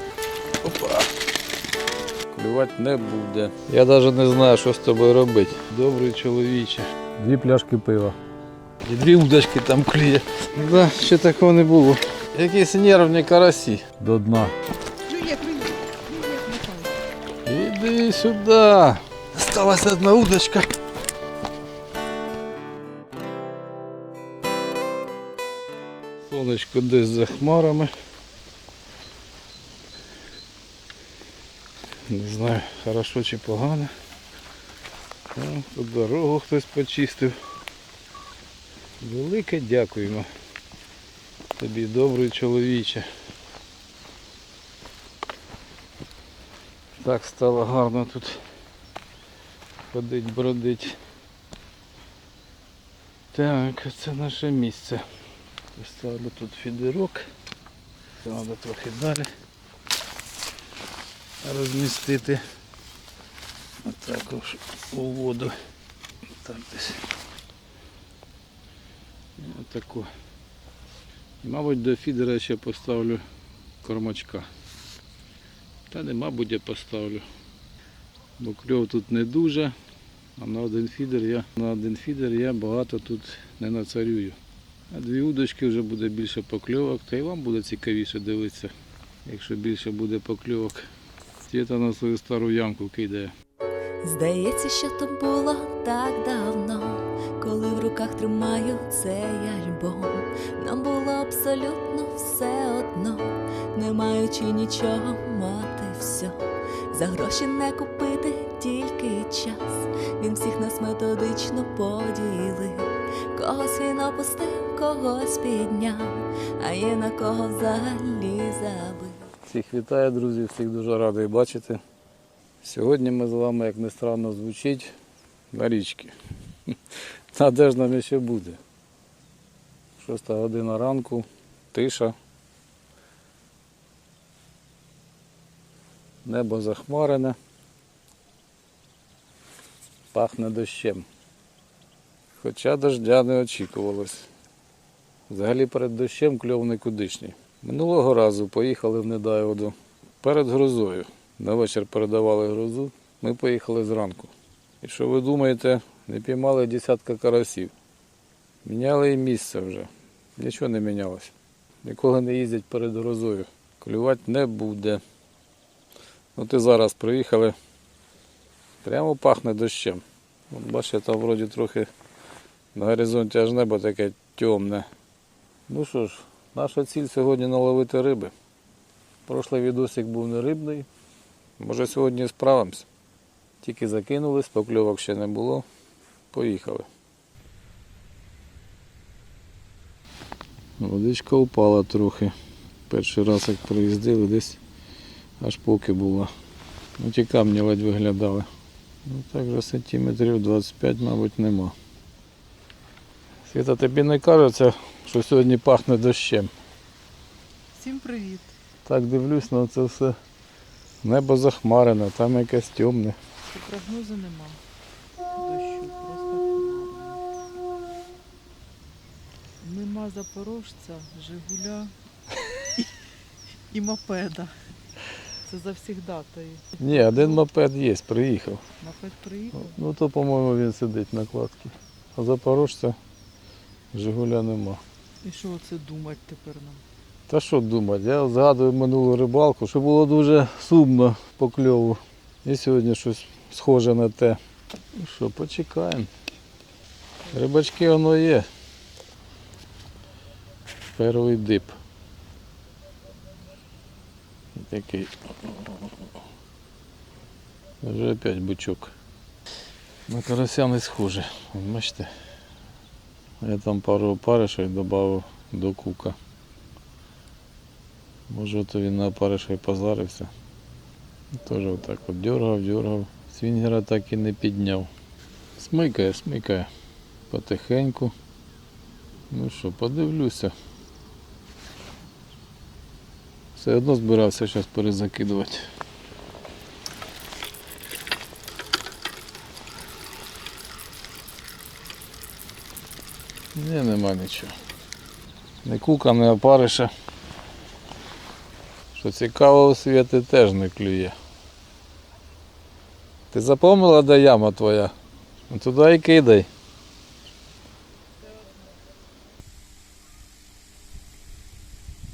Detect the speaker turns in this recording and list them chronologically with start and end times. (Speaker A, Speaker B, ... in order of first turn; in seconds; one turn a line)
Speaker A: 0.6-1.1
Speaker A: 2.3-8.2
Speaker A: 8.8-14.5
Speaker B: 15.1-17.0
Speaker A: 17.4-20.7
Speaker A: 26.3-27.9
Speaker A: 32.1-33.9
Speaker A: 35.3-37.4
Speaker A: 39.0-40.3
Speaker A: 41.6-43.1
Speaker A: 47.0-48.4
Speaker A: 49.9-51.0
Speaker A: 53.3-55.0
Speaker A: 55.8-57.2
Speaker A: 58.2-59.3
Speaker A: 61.4-62.4
Speaker A: 63.8-65.5
Speaker A: 66.4-67.0
Speaker A: 69.4-70.1
Speaker A: 71.4-73.2
Speaker A: 73.8-74.5
Speaker A: 75.9-77.2
Speaker A: 78.4-79.7
Speaker A: 80.4-84.4
Speaker A: 84.9-88.7
Speaker A: 89.2-90.9
Speaker A: 91.4-93.3
Speaker C: 94.0-106.4
Speaker C: 106.9-119.2
Speaker A: 119.4-121.8
Speaker A: 122.6-124.9
Speaker A: 125.5-126.1
Speaker A: 127.3-128.6
Speaker A: 130.0-132.1
Speaker A: 136.2-137.4
Speaker A: 140.1-141.1
Speaker A: 142.4-144.3
Speaker A: 145.3-157.7
Speaker A: 158.6-161.3
Speaker A: 161.8-165.0
Speaker A: 166.3-167.5
Speaker A: 168.8-171.9
Speaker A: 172.7-174.9
Speaker A: 175.7-178.3
Speaker A: 179.2-180.9
Speaker A: 181.6-182.9
Speaker A: 183.6-185.7
Speaker A: 186.3-186.9
Speaker A: 190.8-192.3
Speaker A: 192.9-194.6
Speaker A: 195.4-196.3
Speaker A: 197.0-198.5
Speaker A: 199.1-201.7
Speaker A: 203.4-206.5
Speaker B: 207.7-208.5
Speaker A: 208.8-210.2
Speaker A: 211.0-213.2
Speaker B: 213.5-214.6
Speaker B: 215.3-217.2
Speaker B: 219.6-222.9
Speaker B: 223.7-224.5
Speaker B: 225.4-227.4
Speaker A: 226.8-228.6
Speaker B: 228.8-229.8
Speaker A: 229.5-233.0
Speaker A: 233.9-234.8
Speaker B: 235.2-236.8
Speaker A: 237.3-244.4
Speaker A: 244.9-246.1
Speaker A: 247.3-248.5
Speaker A: 250.9-251.8
Speaker A: 254.5-255.9
Speaker A: 257.8-258.9
Speaker A: 260.1-262.1
Speaker A: 263.4-266.1
Speaker A: 268.3-270.3
Speaker A: 271.3-274.9
Speaker A: 275.6-276.7
Speaker A: 277.3-278.1
Speaker A: 279.3-280.5
Speaker A: 283.6-285.6
Speaker A: 293.5-294.5
Speaker A: 295.6-296.9
Speaker A: 298.9-301.1
Speaker A: 303.3-304.9
Speaker A: 305.5-306.5